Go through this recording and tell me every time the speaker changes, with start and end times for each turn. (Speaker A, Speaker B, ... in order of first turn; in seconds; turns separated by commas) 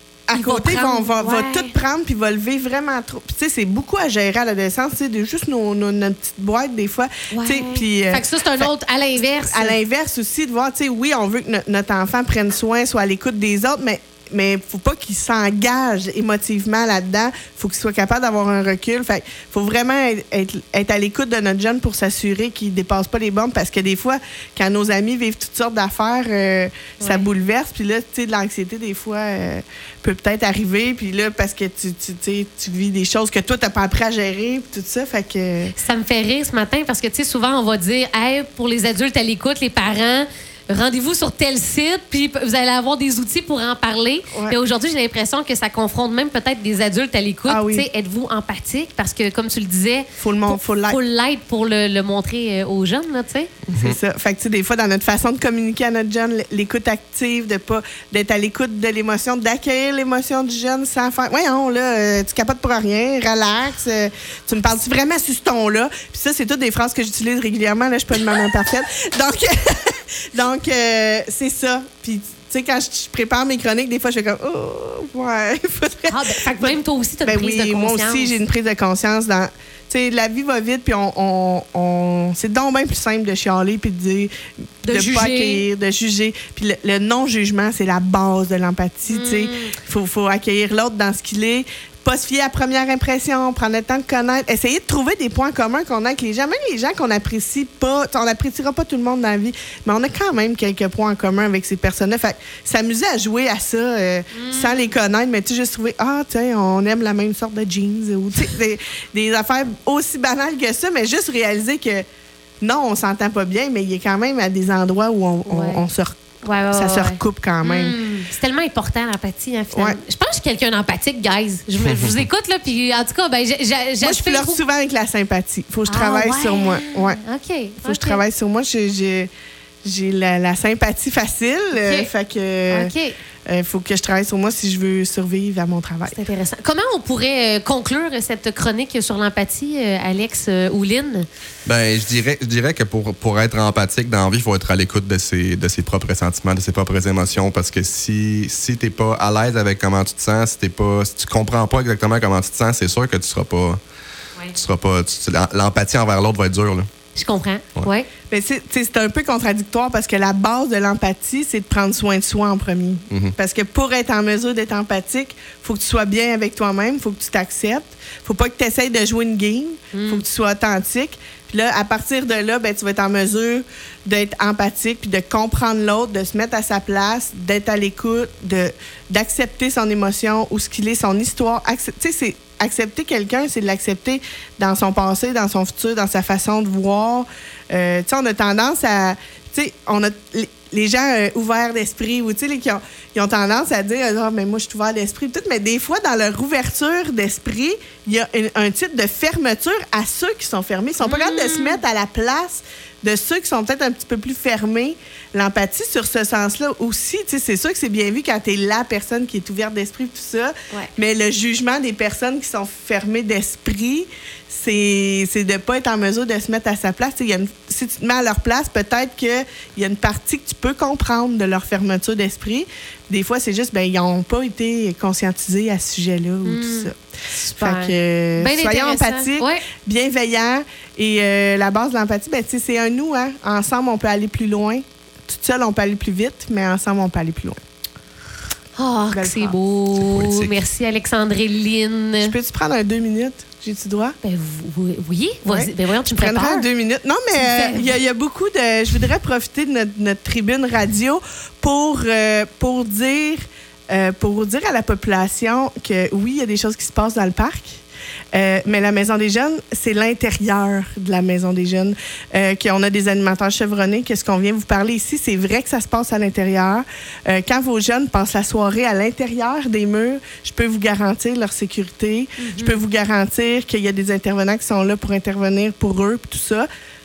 Speaker A: 0.3-8.7, Speaker B: 0.3-1.7, Speaker B: 7.3-9.8, Speaker A: 9.2-35.7, Speaker B: 27.0-27.3, Speaker B: 35.8-53.5, Speaker A: 44.3-44.6, Speaker A: 47.5-47.9, Speaker A: 50.2-51.0, Speaker C: 53.7-54.0, Speaker A: 53.8-84.3, Speaker B: 76.1-78.4, Speaker B: 84.8-85.6, Speaker A: 84.8-112.0, Speaker B: 89.1-89.7, Speaker B: 104.3-104.9, Speaker A: 112.6-116.1, Speaker B: 115.5-115.8, Speaker B: 116.4-124.6, Speaker A: 116.7-117.9, Speaker A: 119.7-120.0, Speaker A: 124.0-127.2, Speaker B: 125.9-128.2, Speaker A: 127.8-129.3, Speaker A: 129.8-132.9, Speaker B: 131.7-132.1, Speaker B: 132.7-133.2, Speaker A: 133.5-136.1, Speaker B: 136.1-141.2, Speaker C: 141.6-153.8, Speaker C: 154.5-156.9, Speaker B: 157.1-158.1, Speaker A: 158.3-226.9, Speaker B: 169.9-170.2, Speaker B: 201.0-201.8, Speaker B: 226.4-229.6, Speaker A: 227.5-237.6, Speaker B: 238.8-242.3, Speaker A: 239.1-239.6, Speaker C: 240.0-240.6, Speaker A: 242.2-244.2, Speaker B: 244.2-246.7, Speaker A: 245.5-257.8, Speaker B: 247.3-247.9, Speaker A: 258.3-276.7, Speaker B: 272.4-272.8